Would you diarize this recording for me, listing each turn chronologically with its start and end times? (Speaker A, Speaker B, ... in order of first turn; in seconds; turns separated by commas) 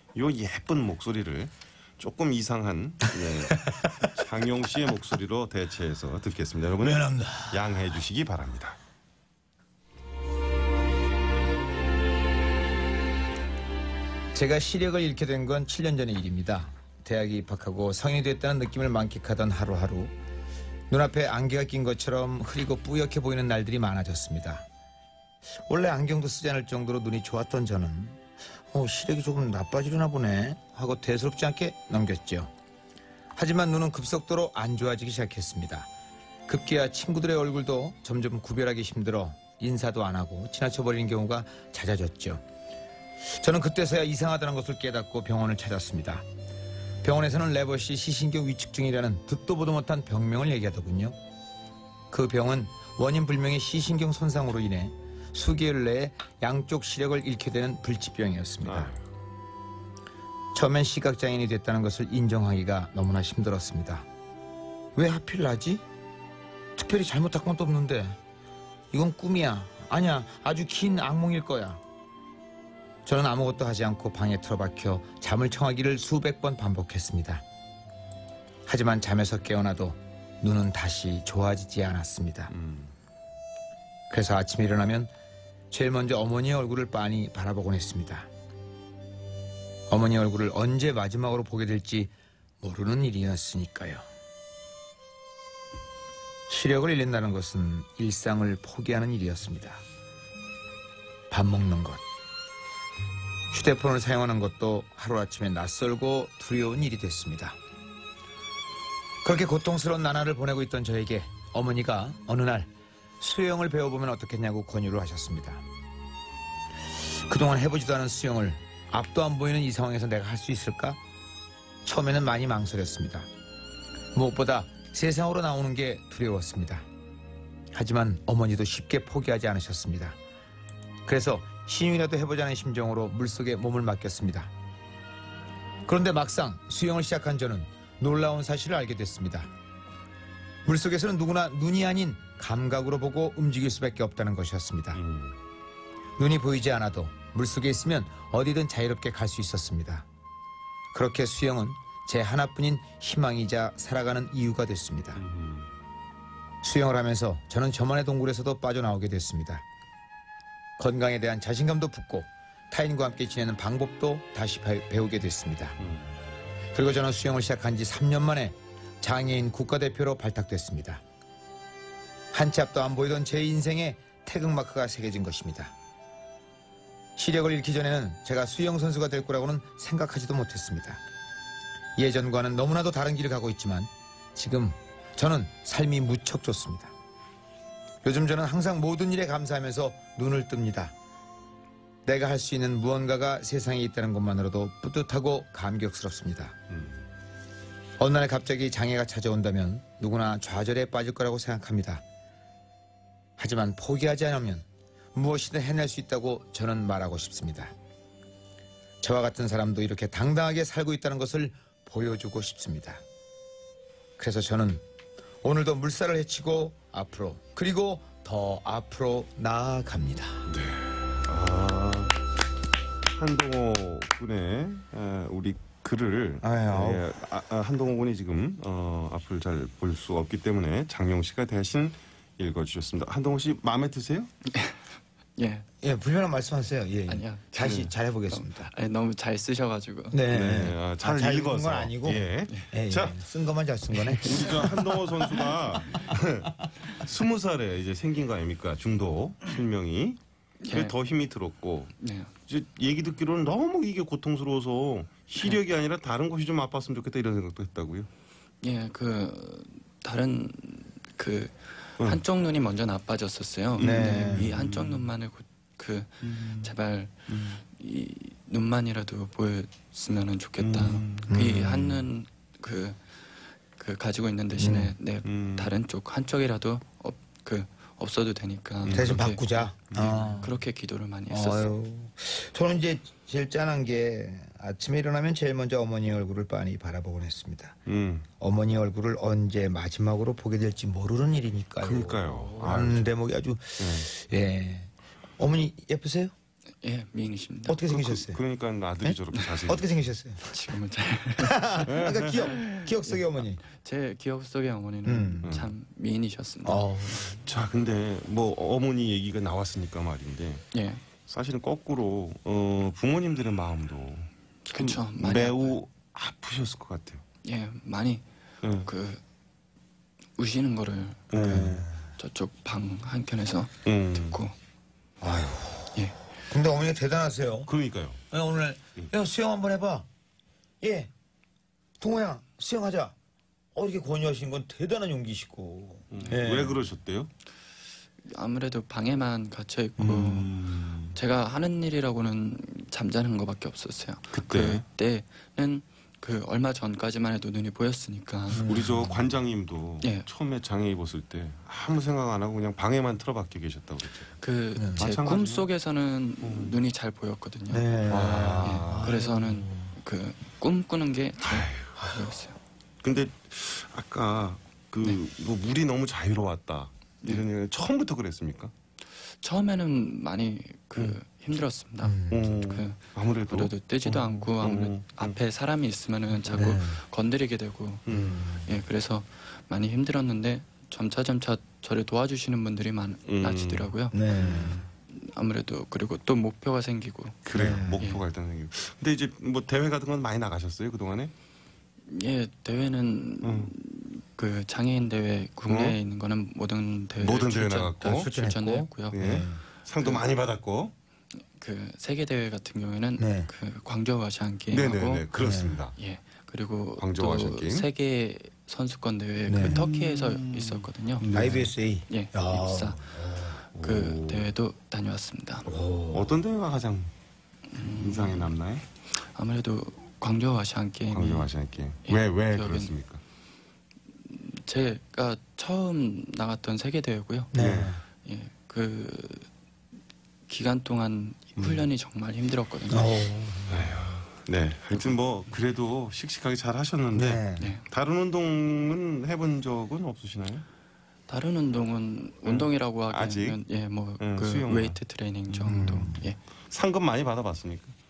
Speaker A: 0.1-8.8, Speaker B: 3.5-4.1, Speaker B: 6.8-7.7, Speaker B: 14.3-20.1, Speaker B: 20.9-24.6, Speaker B: 25.6-32.5, Speaker B: 33.4-35.9, Speaker B: 36.5-42.4, Speaker B: 43.4-46.2, Speaker B: 47.0-51.2, Speaker B: 52.1-58.9, Speaker A: 58.6-59.0, Speaker B: 60.5-64.0, Speaker B: 64.9-65.8, Speaker B: 66.8-68.2, Speaker B: 68.9-71.8, Speaker B: 73.0-77.4, Speaker B: 78.7-82.5, Speaker A: 82.5-82.9, Speaker B: 84.1-85.1, Speaker B: 85.7-88.3, Speaker B: 89.9-94.0, Speaker B: 96.5-99.8, Speaker B: 101.3-102.0, Speaker B: 103.5-107.6, Speaker B: 109.2-115.6, Speaker B: 117.0-121.0, Speaker B: 121.8-123.3, Speaker B: 124.1-126.8, Speaker B: 127.7-130.2, Speaker B: 131.1-134.5, Speaker B: 135.8-139.5, Speaker B: 140.6-145.0, Speaker A: 144.9-145.4, Speaker B: 146.2-150.1, Speaker B: 150.9-155.2, Speaker A: 155.2-155.7, Speaker B: 156.6-159.6, Speaker B: 160.8-165.8, Speaker A: 165.8-166.1, Speaker B: 166.7-171.0, Speaker B: 172.3-175.7, Speaker B: 177.2-181.0, Speaker B: 181.9-186.9, Speaker B: 188.0-190.9, Speaker B: 192.1-196.6, Speaker A: 196.7-197.0, Speaker B: 198.0-202.0, Speaker B: 203.4-207.7, Speaker B: 209.0-213.0, Speaker B: 214.2-214.8, Speaker B: 215.4-220.5, Speaker A: 220.4-222.1, Speaker A: 223.1-234.3, Speaker B: 226.4-227.1, Speaker C: 234.5-234.8, Speaker C: 235.4-235.7, Speaker B: 235.8-238.7, Speaker C: 237.1-240.2, Speaker B: 240.1-245.0, Speaker A: 240.3-243.2, Speaker C: 242.5-242.7, Speaker C: 244.0-244.6, Speaker A: 244.2-250.2, Speaker C: 250.6-250.9, Speaker A: 250.7-251.9, Speaker C: 252.0-252.3, Speaker A: 252.5-258.1, Speaker C: 258.6-273.0, Speaker A: 263.8-265.1, Speaker B: 263.8-264.5, Speaker A: 266.2-266.7, Speaker A: 267.3-267.5, Speaker A: 270.6-271.4, Speaker B: 271.3-272.1, Speaker C: 273.8-279.4, Speaker B: 274.6-274.9, Speaker A: 275.2-275.7, Speaker A: 278.8-279.3, Speaker B: 278.9-280.5, Speaker A: 279.9-280.4, Speaker C: 280.4-281.7, Speaker B: 281.3-287.8, Speaker A: 287.9-288.2, Speaker B: 288.4-296.3, Speaker A: 291.8-293.1, Speaker A: 293.8-294.1, Speaker C: 296.8-297.8, Speaker B: 297.6-298.4, Speaker A: 297.9-299.9, Speaker B: 299.0-300.5, Speaker C: 300.4-306.9, Speaker B: 301.4-303.6, Speaker A: 301.9-302.3, Speaker B: 305.0-305.5, Speaker A: 305.4-305.7, Speaker B: 306.6-307.4, Speaker A: 307.4-310.6, Speaker C: 310.7-311.0, Speaker A: 311.2-317.2, Speaker C: 314.7-315.8, Speaker C: 317.4-318.2, Speaker A: 318.6-318.9, Speaker C: 318.8-319.2, Speaker C: 320.4-324.5, Speaker A: 321.3-321.9, Speaker B: 321.4-321.9, Speaker A: 323.8-324.4, Speaker B: 325.2-326.0, Speaker B: 326.5-327.7, Speaker A: 327.7-328.2, Speaker B: 328.3-330.1, Speaker B: 330.8-331.1, Speaker B: 332.0-333.1, Speaker B: 333.7-336.8, Speaker A: 336.1-337.3, Speaker C: 338.2-348.7, Speaker B: 340.0-341.0, Speaker A: 340.4-341.0, Speaker A: 344.3-344.8, Speaker A: 348.5-354.3, Speaker B: 348.5-349.2, Speaker C: 350.0-350.3, Speaker C: 354.4-362.6, Speaker B: 354.7-355.1, Speaker A: 355.0-355.7, Speaker A: 356.4-356.8, Speaker B: 357.7-359.9, Speaker A: 358.1-359.2, Speaker A: 361.4-362.0, Speaker A: 363.0-368.7, Speaker C: 369.4-384.2, Speaker B: 372.0-372.6, Speaker A: 372.3-375.4, Speaker A: 376.4-376.8, Speaker B: 376.5-377.0, Speaker A: 378.1-378.4, Speaker B: 378.1-378.8, Speaker A: 383.2-384.8, Speaker B: 384.1-384.9, Speaker C: 385.1-388.2, Speaker A: 387.4-391.3, Speaker B: 387.5-388.1, Speaker C: 392.1-400.2, Speaker A: 393.4-393.7, Speaker A: 395.7-396.0, Speaker A: 397.1-398.3, Speaker B: 398.1-399.6, Speaker A: 399.1-400.9, Speaker C: 401.6-405.3, Speaker B: 403.2-403.5, Speaker A: 404.7-405.9, Speaker B: 405.4-405.8, Speaker C: 405.9-411.3, Speaker A: 407.0-407.9, Speaker B: 409.5-409.8, Speaker A: 409.6-411.7, Speaker B: 411.3-413.6, Speaker C: 412.1-413.0, Speaker C: 413.7-415.7, Speaker A: 413.7-414.5, Speaker B: 415.6-416.3, Speaker A: 416.1-417.1, Speaker C: 417.7-418.5, Speaker A: 417.8-418.8, Speaker C: 419.2-421.5, Speaker A: 421.1-423.2, Speaker C: 422.0-422.9, Speaker C: 424.3-427.5, Speaker B: 427.5-428.0, Speaker A: 427.5-428.0, Speaker C: 428.2-429.5, Speaker C: 430.5-433.3, Speaker A: 431.6-431.9, Speaker B: 432.9-434.2, Speaker A: 433.7-440.6, Speaker B: 437.1-437.7, Speaker C: 437.6-437.9, Speaker C: 441.3-446.4, Speaker A: 442.4-443.6, Speaker A: 444.2-445.0, Speaker A: 445.5-446.1, Speaker B: 445.6-446.2, Speaker A: 446.7-447.9